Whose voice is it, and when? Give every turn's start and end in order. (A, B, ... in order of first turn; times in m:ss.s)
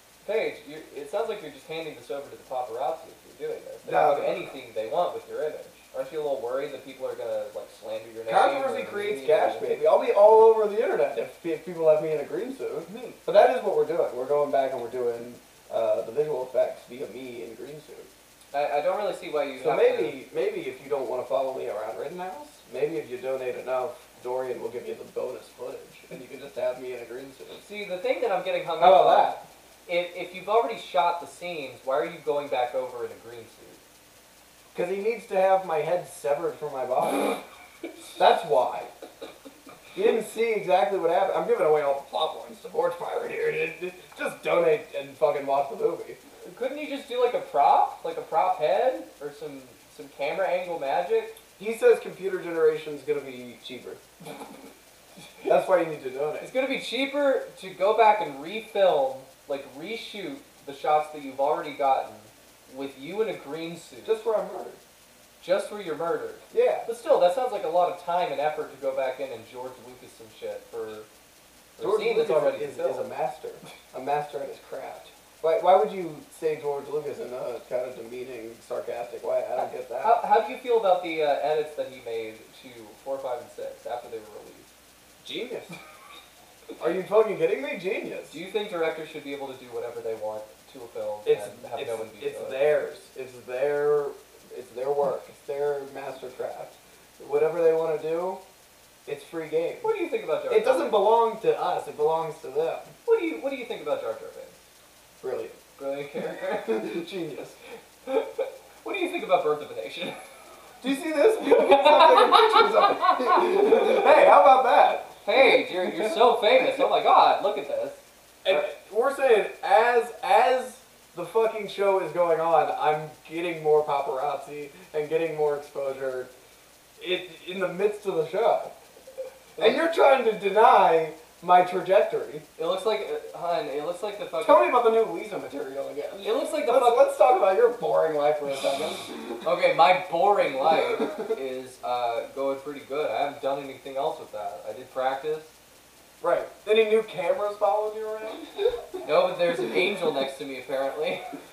0:00.2-0:09.7 A
0:03.8-0:04.6 B
0:08.3-0:18.1 B
0:12.9-0:13.2 A
0:18.5-0:20.2 A
0:19.6-0:27.6 B
0:27.6-0:33.8 A
0:28.8-0:29.4 B
0:34.7-0:37.4 B
0:38.2-0:38.9 B
0:39.9-0:46.2 B
0:46.5-0:51.4 A
0:51.6-0:54.0 B
0:55.4-0:56.5 B
0:56.4-1:04.2 A
1:04.0-1:04.8 B
1:05.4-1:11.1 A
1:06.5-1:06.9 B
1:11.8-1:13.1 A
1:11.8-1:20.2 B
1:20.0-1:24.7 A
1:25.2-1:25.8 B
1:26.8-1:28.4 B
1:28.3-1:32.6 A
1:31.2-1:38.4 B
1:39.1-1:39.9 B
1:39.8-1:41.0 A
1:40.5-1:42.9 B
1:43.1-1:44.6 A
1:45.2-1:45.6 B
1:45.8-1:46.8 A
1:46.6-1:47.6 B
1:48.1-1:50.2 A
1:50.8-1:55.1 B
1:51.4-1:53.4 A
1:55.2-1:58.6 A
1:58.4-2:06.3 B
2:07.0-2:08.7 B
2:09.6-2:12.4 B
2:12.6-2:14.7 A
2:14.4-2:19.4 B
2:16.2-2:17.1 A
2:19.4-2:25.5 A
2:26.2-2:28.8 B
2:29.0-2:31.3 A